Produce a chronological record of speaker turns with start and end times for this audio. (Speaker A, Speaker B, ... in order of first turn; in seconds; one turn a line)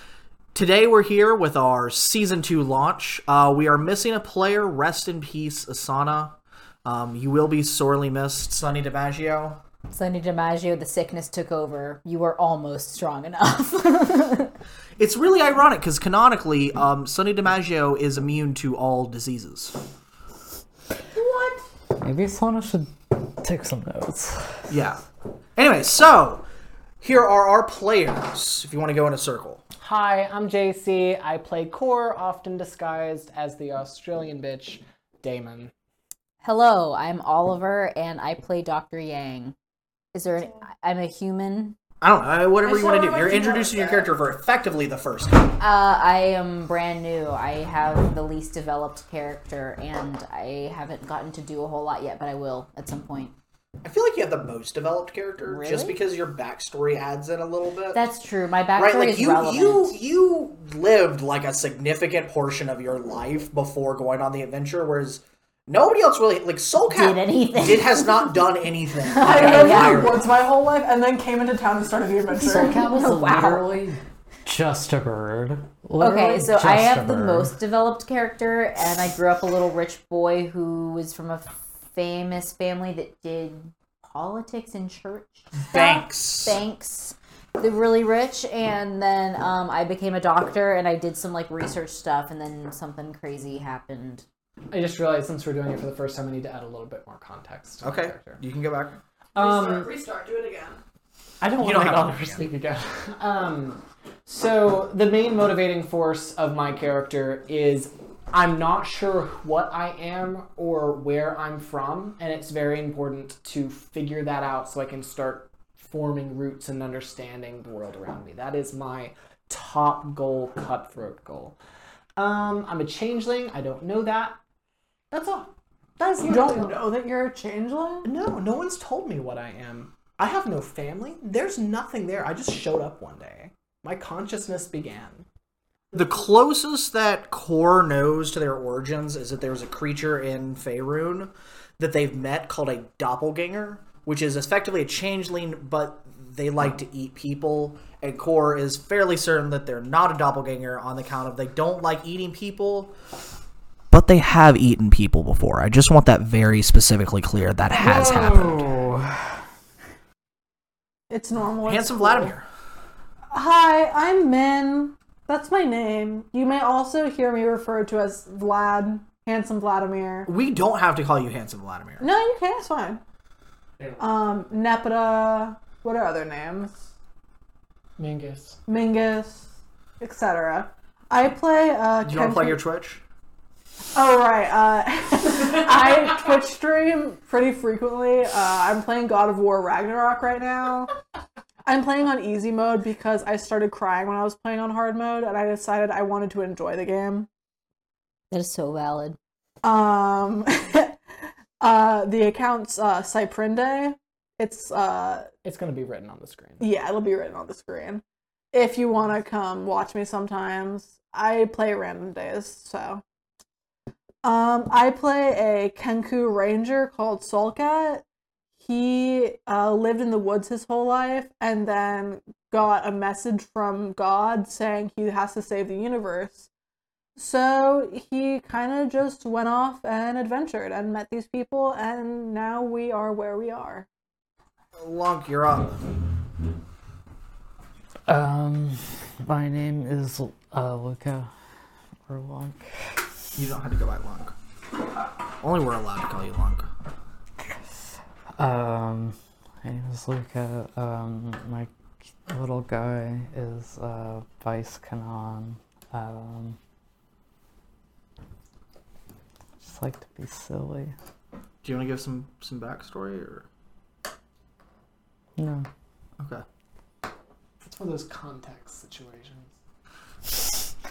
Speaker A: 0.5-9.6
Speaker B: 9.9-14.5
Speaker A: 15.0-19.8
Speaker C: 21.1-21.6
Speaker D: 22.0-24.6
Speaker A: 24.7-25.0
Speaker A: 25.6-26.4
Speaker A: 27.0-29.6
Speaker E: 29.8-35.7
Speaker B: 36.4-39.5
Speaker B: 40.1-41.8
Speaker A: 42.0-45.5
Speaker C: 42.6-44.1
Speaker B: 45.6-53.3
Speaker A: 53.8-58.0
Speaker B: 55.5-56.0
Speaker B: 57.9-59.9
Speaker A: 58.8-70.3
Speaker B: 66.9-68.4
Speaker B: 69.1-70.2
Speaker C: 69.2-72.8
Speaker D: 72.3-77.5
Speaker B: 72.6-73.8
Speaker B: 76.0-94.2
Speaker A: 85.5-86.6
Speaker E: 94.7-98.4
Speaker A: 97.8-99.0
Speaker E: 99.3-99.9
Speaker C: 99.3-100.8
Speaker E: 101.4-121.5
Speaker A: 101.6-102.5
Speaker E: 122.2-124.4
Speaker E: 125.1-126.8
Speaker C: 126.2-128.1
Speaker E: 128.0-135.2
Speaker A: 135.9-152.9
Speaker A: 153.9-158.7
Speaker D: 157.8-159.2
Speaker C: 161.1-162.3
Speaker A: 161.7-162.4
Speaker C: 163.3-170.3
Speaker A: 170.2-172.1
Speaker C: 172.0-173.0
Speaker C: 174.0-176.8
Speaker E: 178.0-178.6
Speaker C: 178.7-179.5
Speaker C: 180.0-182.6
Speaker A: 182.0-183.0
Speaker C: 183.9-190.9
Speaker C: 191.6-197.3
Speaker B: 198.3-199.2
Speaker C: 199.6-201.0
Speaker C: 201.6-205.3
Speaker E: 205.4-206.7
Speaker C: 206.6-213.0
Speaker C: 214.2-218.0
Speaker C: 218.6-226.5
Speaker C: 227.2-233.8
Speaker A: 234.8-235.8
Speaker D: 238.1-241.3
Speaker D: 242.1-242.7
Speaker A: 243.3-244.3
Speaker A: 245.4-246.7
Speaker D: 248.4-251.7
Speaker D: 252.3-256.6
Speaker D: 259.6-260.9
Speaker A: 261.6-263.5
Speaker D: 265.4-265.6
Speaker A: 266.2-266.4
Speaker E: 267.6-269.5